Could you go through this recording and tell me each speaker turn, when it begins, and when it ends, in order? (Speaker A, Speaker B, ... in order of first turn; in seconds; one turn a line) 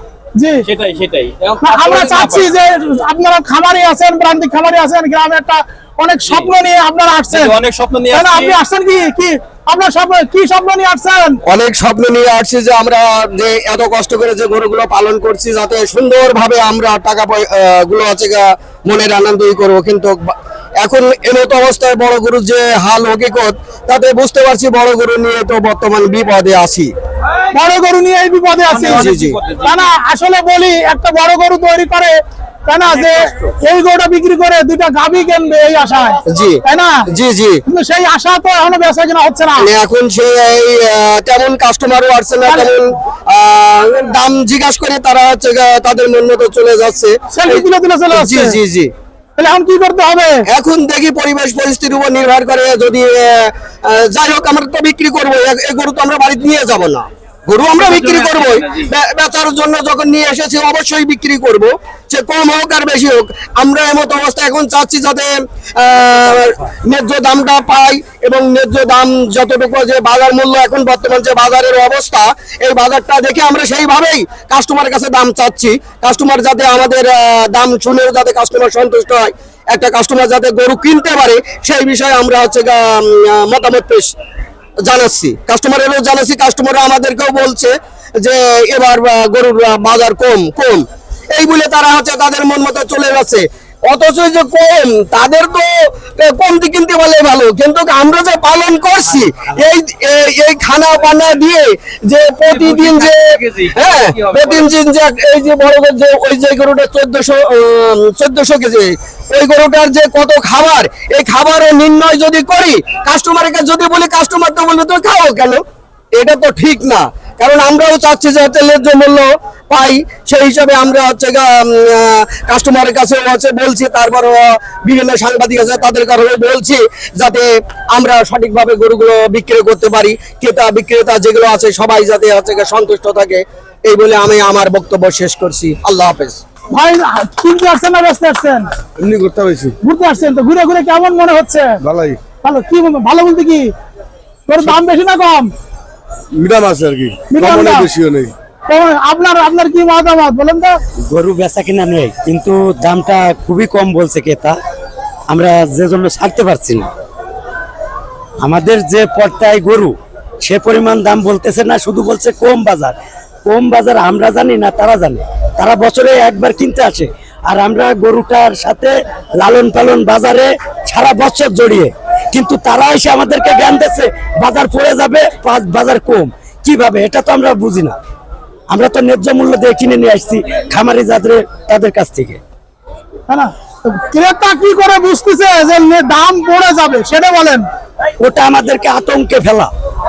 Speaker A: 0.3-0.6
Speaker B: 0.6-2.5
Speaker A: 1.6-7.5
Speaker B: 7.3-8.6
Speaker A: 8.1-11.4
Speaker C: 11.4-26.9
Speaker A: 27.5-29.1
Speaker B: 28.7-29.9
Speaker C: 28.9-29.4
Speaker A: 29.6-37.0
Speaker B: 32.9-33.5
Speaker C: 36.3-36.6
Speaker C: 37.1-37.6
Speaker A: 37.6-39.7
Speaker C: 39.6-48.9
Speaker A: 42.5-42.7
Speaker A: 47.3-48.6
Speaker A: 49.4-50.4
Speaker C: 50.5-84.1
Speaker B: 57.8-58.9
Speaker C: 84.8-115.6
Speaker B: 102.5-104.7
Speaker C: 116.1-136.4
Speaker A: 136.7-138.7
Speaker D: 139.0-139.7
Speaker A: 139.8-141.7
Speaker D: 141.8-142.2
Speaker A: 142.4-143.7
Speaker A: 144.5-145.5
Speaker D: 146.4-148.3
Speaker A: 147.3-147.9
Speaker A: 148.7-150.8
Speaker E: 151.1-154.6
Speaker E: 155.3-156.9
Speaker E: 158.4-178.0
Speaker E: 178.7-182.4
Speaker A: 183.3-187.6
Speaker E: 188.2-189.7